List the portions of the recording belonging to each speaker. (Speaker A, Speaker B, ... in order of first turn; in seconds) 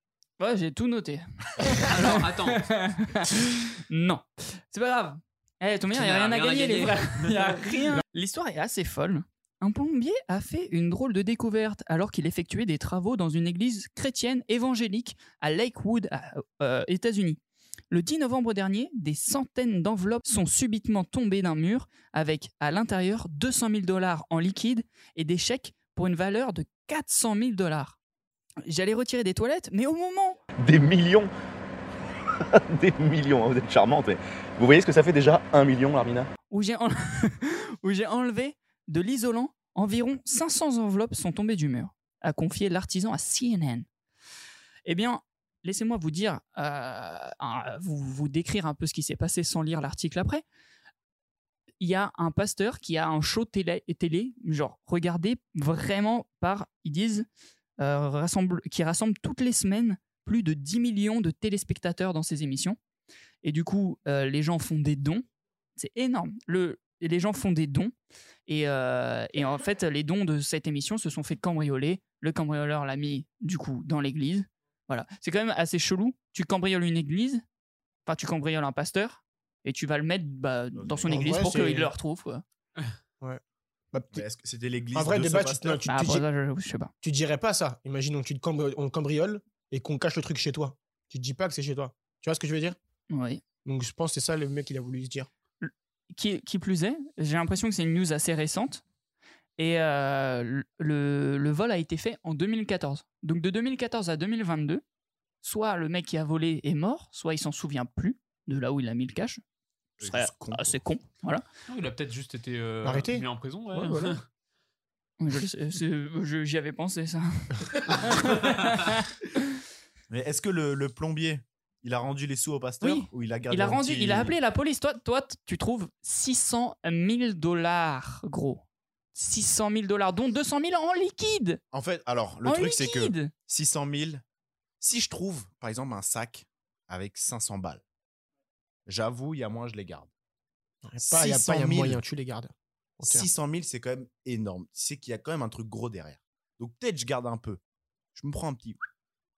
Speaker A: 0.4-17.4, 17.9-28.0, 28.6-30.4, 36.5-43.9, 44.8-50.4, 51.8-57.3, 57.8-62.8, 63.4-65.2, 65.8-67.9, 68.5-77.4, 78.0-82.4, 85.9-86.9, 93.1-93.4, 95.6-98.8, 99.6-104.8, 105.4-109.4, 110.0-111.4, 115.2-119.2, 122.8-131.6, 132.4-133.3
Speaker B: 1.8-2.7, 5.9-8.0, 111.7-114.2
Speaker C: 30.6-31.3, 32.5-36.3
Speaker D: 80.7-81.3, 84.1-85.8, 110.0-110.8, 120.1-124.3, 131.7-134.2, 134.8-137.8, 138.8-140.1, 141.1-142.0, 143.0-147.6, 148.1-148.8
Speaker E: 81.1-81.9, 83.9-84.2, 84.9-86.2, 87.0-92.8, 93.6-95.3, 112.8-114.2, 140.8-143.3